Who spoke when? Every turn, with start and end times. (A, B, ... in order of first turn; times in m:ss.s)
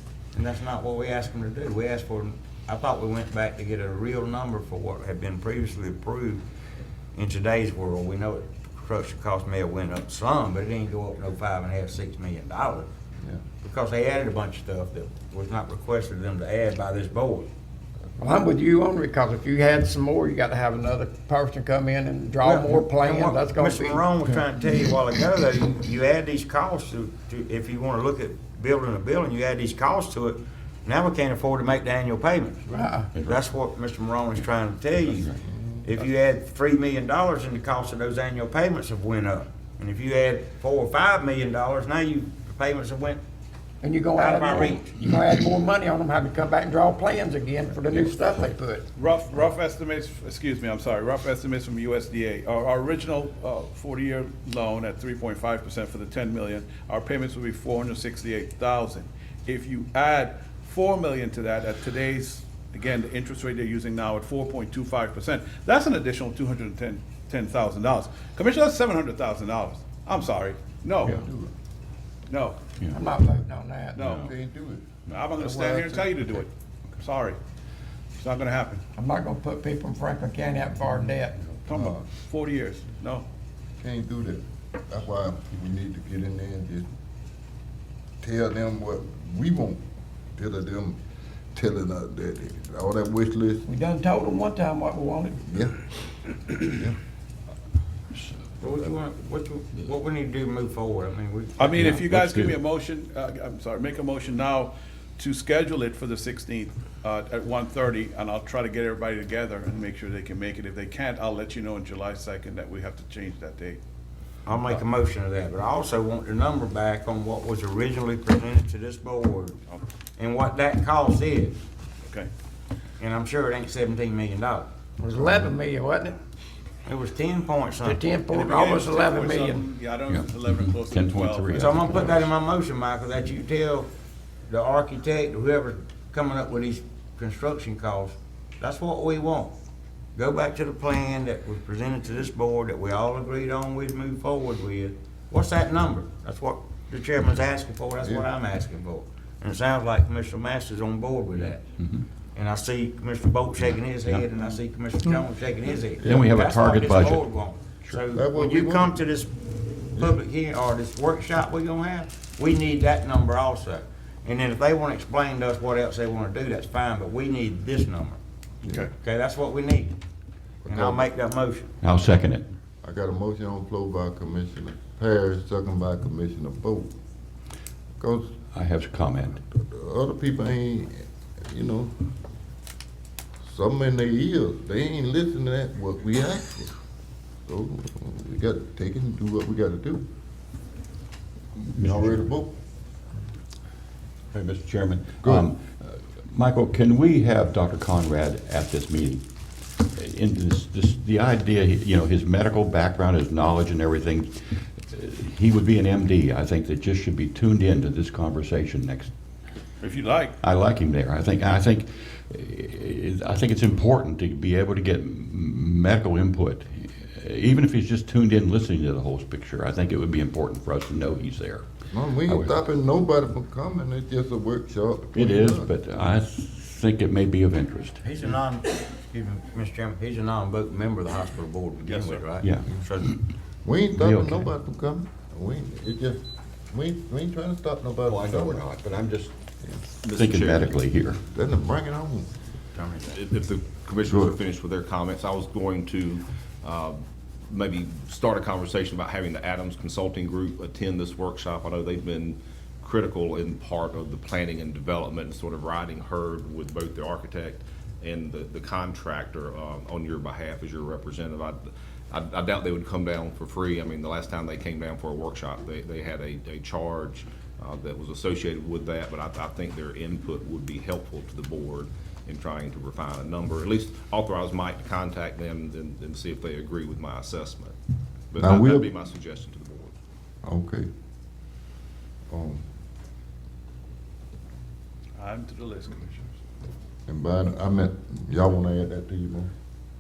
0:00.4-0:06.4 A
0:07.1-0:12.9 A
0:13.6-0:17.5 A
0:18.2-0:24.0 B
0:22.4-0:35.3 A
0:32.7-0:33.1 B
0:35.5-0:35.8 C
0:35.8-0:43.2 A
0:43.8-0:48.9 B
0:44.1-0:45.0 A
0:49.0-1:11.2 D
1:11.0-1:11.5 C
1:12.3-1:12.7 D
1:12.9-1:14.1 B
1:14.0-1:14.3 D
1:14.0-1:16.3 C
1:15.1-1:16.5 D
1:17.0-1:17.4 D
1:18.2-1:18.8 D
1:19.0-1:21.6 B
1:21.6-1:23.2 D
1:21.7-1:22.0 C
1:23.8-1:26.9 C
1:28.2-1:29.8 C
1:30.4-1:31.0 C
1:31.5-1:33.6 C
1:33.7-1:35.5 B
1:35.4-1:35.7 C
1:36.6-1:37.0 C
1:38.6-1:42.0 A
1:41.6-1:53.8 D
1:41.8-1:42.6 E
1:54.5-1:59.6 A
2:00.2-2:01.6 A
2:03.0-2:04.7 A
2:05.0-2:06.2 B
2:06.9-2:08.4 A
2:07.8-2:09.7 B
2:08.4-2:12.0 D
2:10.1-2:12.3 E
2:11.5-2:13.9 A
2:14.5-2:19.5 A
2:20.2-2:31.6 A
2:28.0-2:28.3 C
2:32.4-2:48.2 A
2:36.0-2:37.2 E
2:38.1-2:39.0 C
2:48.9-2:50.0 A
2:50.6-2:51.1 C
2:50.7-2:51.7 A
2:51.8-2:52.5 E
2:52.8-2:56.9 C
2:58.0-2:58.4 C
2:58.5-2:59.4 E
2:59.5-3:01.9 C
3:03.4-3:06.7 C
3:07.5-3:10.0 C
3:11.7-3:12.5 C
3:11.7-3:12.2 E
3:14.3-3:19.2 E
3:19.8-3:29.1 E
3:29.8-3:30.4 D
3:30.4-3:41.6 E
3:41.9-3:45.7 C
3:42.3-3:42.5 E
3:45.1-3:48.0 E
3:48.0-3:53.2 A
3:51.8-3:52.3 D
3:52.4-3:53.1 E
3:53.6-3:58.6 C
3:54.0-3:54.5 E
3:58.0-3:59.3 E
4:00.0-4:00.8 F
4:00.1-4:01.2 E
4:01.3-4:02.3 C
4:03.0-4:07.0 F
4:04.0-4:04.4 C
4:07.5-4:37.7 F
4:38.3-4:40.0 F
4:38.4-4:38.9 C
4:40.4-4:40.9 C
4:42.3-4:42.6 C
4:45.2-4:46.3 D
4:47.1-4:49.5 C